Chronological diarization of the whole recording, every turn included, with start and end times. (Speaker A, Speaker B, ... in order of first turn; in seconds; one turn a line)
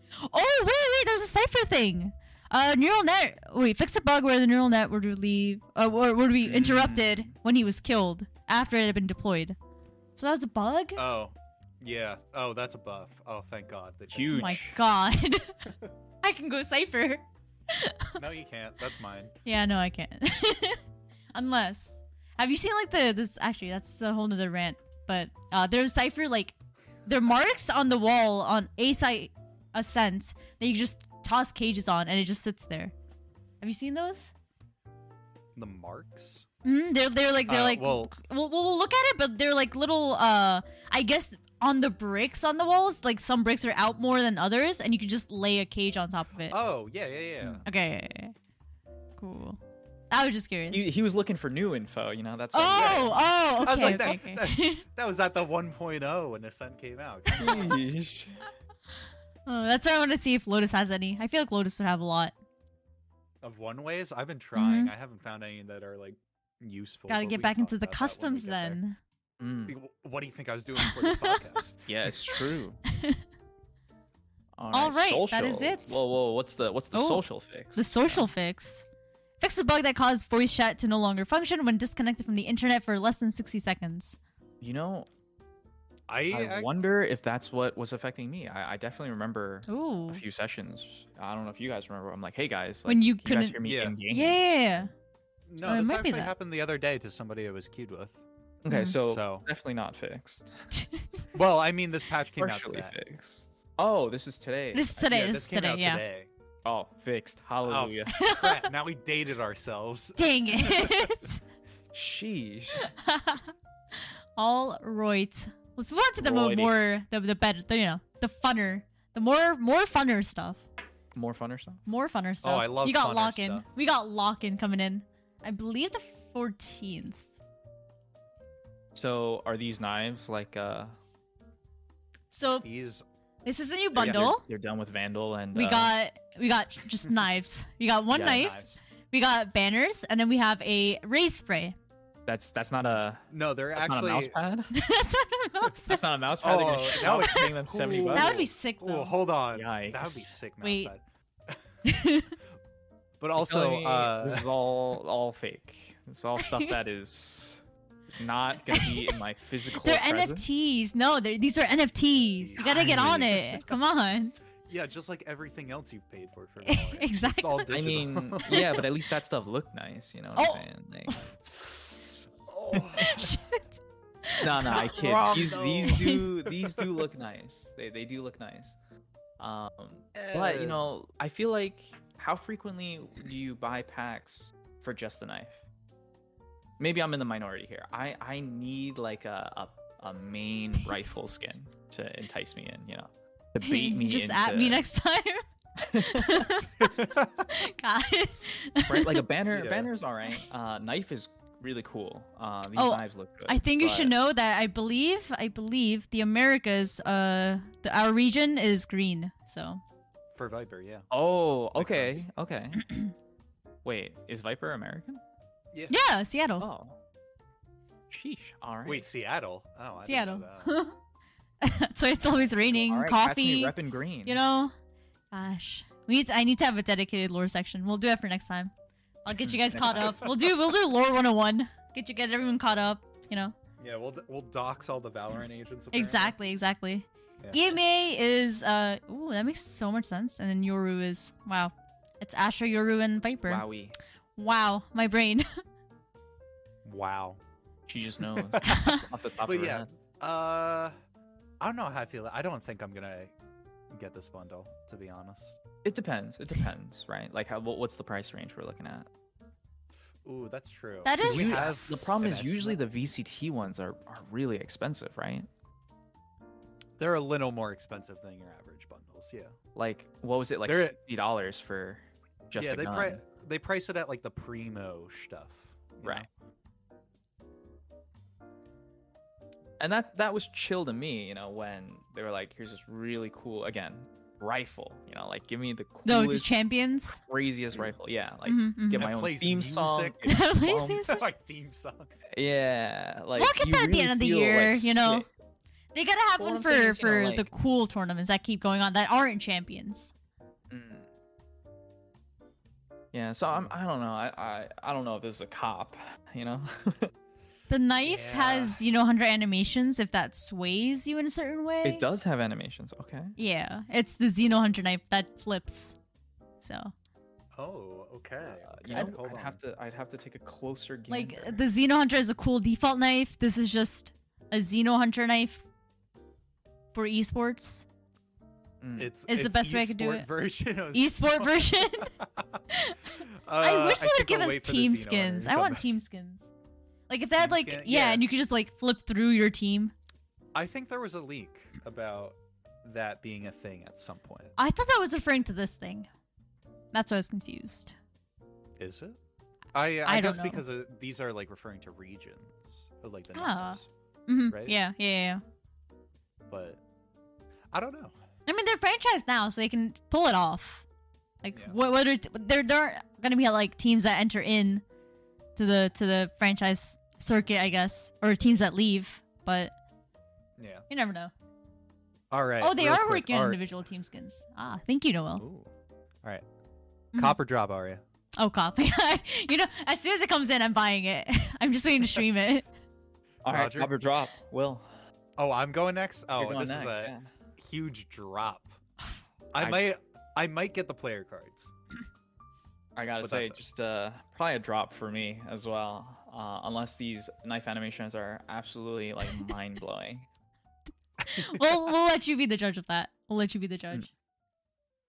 Speaker A: 0.2-9.6
Speaker B: 6.4-7.3
Speaker C: 6.5-7.0
Speaker A: 10.2-11.0
Speaker C: 10.9-14.6
Speaker B: 14.1-14.8
Speaker A: 14.3-15.7
Speaker A: 16.2-18.2
Speaker C: 18.1-19.3
Speaker A: 19.4-20.8
Speaker A: 21.3-26.5
Speaker A: 27.1-32.9
Speaker A: 33.6-34.3
Speaker C: 35.5-36.4
Speaker A: 36.6-46.5
Speaker C: 37.5-38.1
Speaker C: 46.5-47.6
Speaker A: 47.6-48.3
Speaker A: 49.2-49.6
Speaker A: 50.1-50.8
Speaker B: 50.7-54.2
Speaker A: 52.5-54.8
Speaker C: 52.7-57.8
Speaker A: 57.4-57.7
Speaker B: 57.4-58.4
Speaker A: 59.5-62.3
Speaker C: 63.4-68.8
Speaker A: 64.5-64.9
Speaker A: 67.1-69.0
Speaker B: 69.4-69.7
Speaker C: 69.7-71.9
Speaker A: 70.8-71.5
Speaker B: 71.9-72.8
Speaker A: 72.9-73.2
Speaker B: 74.6-78.3
Speaker A: 74.7-76.0
Speaker A: 76.9-78.8
Speaker A: 79.4-84.2
Speaker B: 84.6-85.1
Speaker C: 86.1-86.7
Speaker B: 86.3-94.8
Speaker A: 89.7-90.2
Speaker A: 92.9-94.9
Speaker C: 93.7-94.0
Speaker C: 95.5-98.2
Speaker A: 95.6-96.3
Speaker B: 98.6-100.6
Speaker A: 98.7-99.0
Speaker C: 98.9-99.5
Speaker A: 100.7-101.0
Speaker C: 101.3-102.9
Speaker B: 102.4-105.1
Speaker A: 104.7-106.0
Speaker C: 105.1-106.3
Speaker B: 106.6-108.1
Speaker C: 107.6-111.1
Speaker A: 108.1-108.7
Speaker A: 110.2-111.4
Speaker B: 111.9-112.9
Speaker A: 112.7-113.5
Speaker A: 114.4-120.6
Speaker B: 116.2-116.7
Speaker B: 121.1-121.8
Speaker A: 121.9-127.2
Speaker C: 122.4-123.7
Speaker B: 128.9-131.0
Speaker A: 132.3-132.7
Speaker C: 132.6-133.0
Speaker A: 133.4-134.4
Speaker C: 133.9-134.3
Speaker B: 134.0-135.9
Speaker A: 135.5-141.7
Speaker B: 138.1-138.5
Speaker C: 138.1-138.8
Speaker B: 142.2-144.7
Speaker C: 143.3-144.3
Speaker A: 144.7-146.0
Speaker B: 145.8-148.5
Speaker C: 146.4-151.6
Speaker A: 147.0-149.2
Speaker B: 149.5-150.3
Speaker A: 150.6-150.9
Speaker A: 151.8-152.3
Speaker C: 153.2-154.5
Speaker B: 153.4-160.4
Speaker A: 156.4-156.7
Speaker A: 158.7-159.2
Speaker A: 159.8-164.3
Speaker C: 162.4-163.8
Speaker B: 162.7-163.5
Speaker C: 164.7-168.8
Speaker A: 166.6-167.7
Speaker B: 167.7-171.3
Speaker A: 168.5-168.8
Speaker A: 170.3-170.6
Speaker C: 172.4-173.4
Speaker B: 172.7-173.1
Speaker A: 173.0-175.2
Speaker B: 174.4-178.8
Speaker C: 174.5-177.0
Speaker A: 175.8-176.2
Speaker B: 179.4-185.6
Speaker C: 180.1-180.8
Speaker B: 186.8-194.8
Speaker A: 193.6-199.2
Speaker B: 195.8-196.6
Speaker C: 196.9-197.4
Speaker B: 198.9-204.1
Speaker C: 199.5-199.9
Speaker A: 202.7-209.8
Speaker C: 210.3-211.1
Speaker B: 211.1-212.8
Speaker C: 211.7-212.2
Speaker B: 213.8-215.2
Speaker A: 215.9-216.7
Speaker B: 216.6-217.0
Speaker B: 218.1-219.1
Speaker C: 218.8-220.8
Speaker A: 220.1-220.9
Speaker A: 221.6-223.7
Speaker B: 222.7-224.4
Speaker A: 224.2-224.7
Speaker A: 225.3-228.7
Speaker A: 229.2-233.5
Speaker B: 229.4-230.5
Speaker C: 233.8-236.3
Speaker A: 235.9-243.6
Speaker C: 237.4-237.7
Speaker B: 243.5-243.9
Speaker A: 244.4-245.4
Speaker C: 246.8-247.4
Speaker B: 247.9-249.9
Speaker C: 248.3-250.9
Speaker A: 248.6-249.1
Speaker C: 251.6-253.3
Speaker C: 253.9-255.6
Speaker B: 255.8-259.1
Speaker C: 260.2-262.8
Speaker A: 261.0-262.1
Speaker B: 261.2-265.5
Speaker C: 267.0-269.6
Speaker B: 269.7-273.2
Speaker C: 270.6-270.9
Speaker C: 272.6-276.3
Speaker B: 279.8-286.5
Speaker A: 286.0-287.2
Speaker B: 287.1-291.1
Speaker A: 288.4-289.0
Speaker C: 288.9-290.4
Speaker A: 290.2-291.2
Speaker C: 291.0-292.1
Speaker B: 292.3-295.3
Speaker A: 293.4-295.3
Speaker A: 295.9-300.1
Speaker B: 296.4-297.5
Speaker B: 300.7-301.1
Speaker B: 303.1-307.1
Speaker A: 307.7-312.0
Speaker C: 308.1-308.8
Speaker B: 311.8-313.3
Speaker A: 313.4-315.9
Speaker A: 316.6-316.9
Speaker C: 317.6-319.6
Speaker B: 318.5-321.6
Speaker A: 321.1-325.6
Speaker A: 326.9-327.9
Speaker B: 328.8-329.1
Speaker C: 328.9-332.6
Speaker A: 329.3-330.3
Speaker A: 330.9-332.1
Speaker A: 332.7-336.5
Speaker C: 333.2-335.8
Speaker A: 337.1-339.9
Speaker C: 337.4-338.2
Speaker C: 340.5-344.5
Speaker A: 344.6-346.1
Speaker A: 346.9-347.9
Speaker C: 348.8-349.2
Speaker C: 349.7-353.9
Speaker A: 350.1-350.6
Speaker A: 353.3-355.4
Speaker C: 354.5-354.8
Speaker C: 356.5-356.8
Speaker C: 357.7-358.1
Speaker A: 358.5-360.8
Speaker A: 361.4-364.8
Speaker A: 365.6-369.7
Speaker C: 370.6-370.8
Speaker A: 370.9-371.3
Speaker C: 372.3-373.6
Speaker A: 372.6-375.4
Speaker C: 375.4-375.7
Speaker A: 377.1-377.4
Speaker C: 377.1-378.0
Speaker A: 378.4-382.6
Speaker B: 383.4-384.9
Speaker C: 383.5-383.9
Speaker C: 385.4-388.8
Speaker B: 386.3-387.3
Speaker C: 389.5-391.7
Speaker B: 389.6-389.8
Speaker B: 392.9-400.3
Speaker C: 393.2-393.6
Speaker C: 401.2-401.6
Speaker A: 401.2-404.1